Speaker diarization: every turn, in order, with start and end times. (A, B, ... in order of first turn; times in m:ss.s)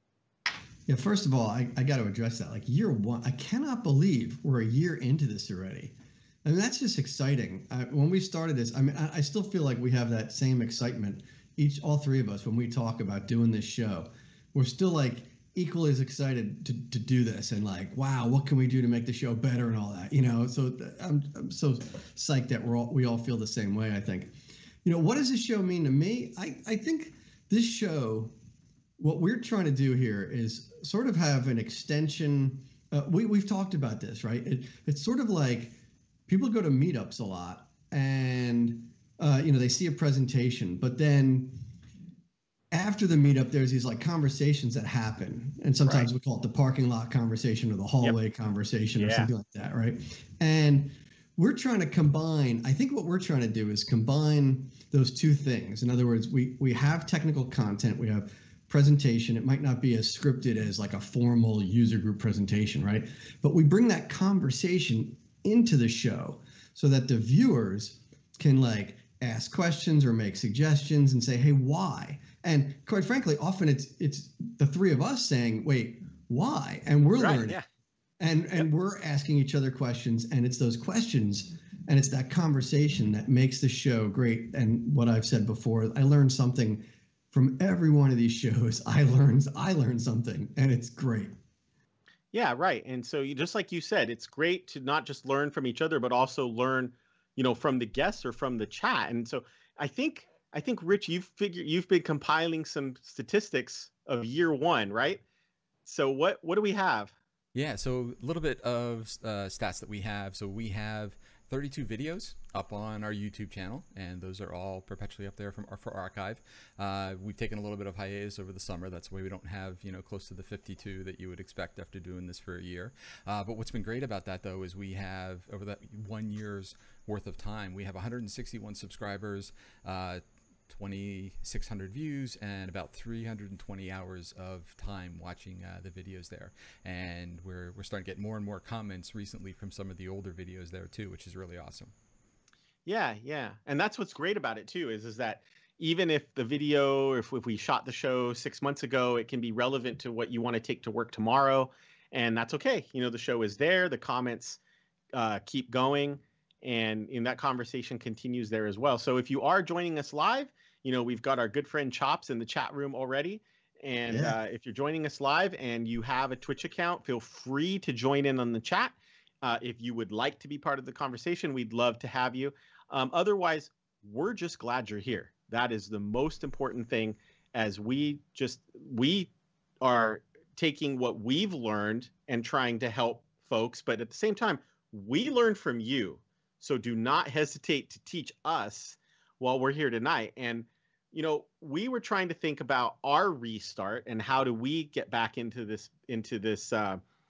0:00.9-0:24.3 A
0:24.8-0:28.3 A
0:29.0-0:35.8 A
0:36.3-0:41.6 A
0:42.7-1:17.6 A
0:49.0-0:49.3 B
1:17.2-1:17.6 B
1:18.2-1:31.3 A
1:32.3-1:45.2 B
1:45.8-1:47.1 B
1:47.5-2:21.9 C
2:22.8-2:34.6 B
2:35.1-2:59.3 B
2:44.1-2:44.4 A
2:59.8-3:17.0 B